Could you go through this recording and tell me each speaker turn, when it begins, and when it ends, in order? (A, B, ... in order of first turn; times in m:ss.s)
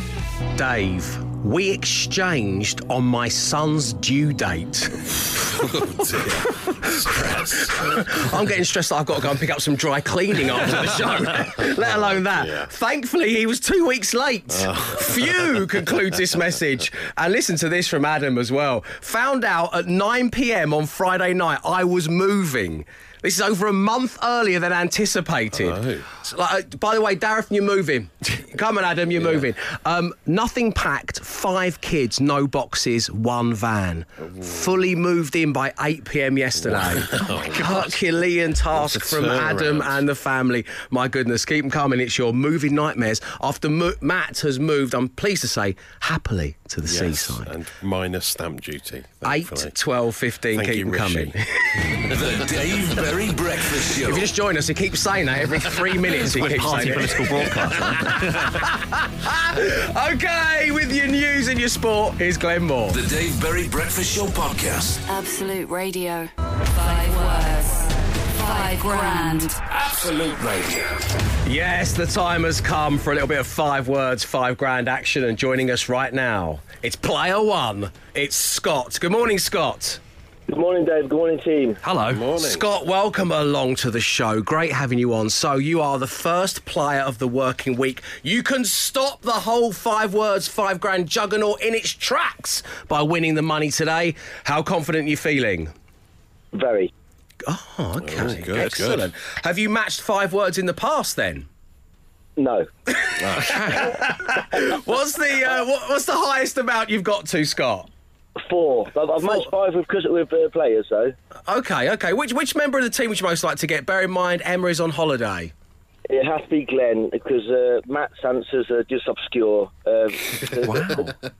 0:00.6-0:05.6 A
0:05.5-0:08.3 B
0:06.2-0:47.5 A
0:11.4-0:12.7 B
0:14.5-0:15.8 B
0:25.5-0:26.1 B
0:34.3-0:34.6 B
0:36.6-0:38.0 B
0:38.7-0:40.0 B
0:46.8-0:49.7 B
0:49.2-0:52.1 A
0:50.5-0:51.3 B
0:52.1-0:54.3 C
0:54.0-1:03.0 A
0:56.2-0:58.6 D
1:02.9-1:05.0 C
1:05.1-1:06.3 E
1:06.8-1:07.8 E
1:08.4-1:09.5 E
1:09.7-1:11.0 C
1:11.4-1:20.0 A
1:20.5-1:21.8 F
1:21.8-1:22.3 D
1:22.1-1:22.7 B
1:22.4-1:35.7 A
1:36.5-1:36.9 F
1:37.4-1:41.5 A
1:38.0-1:39.1 B
1:42.4-1:42.7 F
1:42.9-1:47.9 A
1:43.2-1:44.0 B
1:48.4-1:51.2 F
1:49.2-1:49.5 A
1:51.5-1:55.5 A
1:56.1-2:01.0 F
2:00.6-2:01.1 D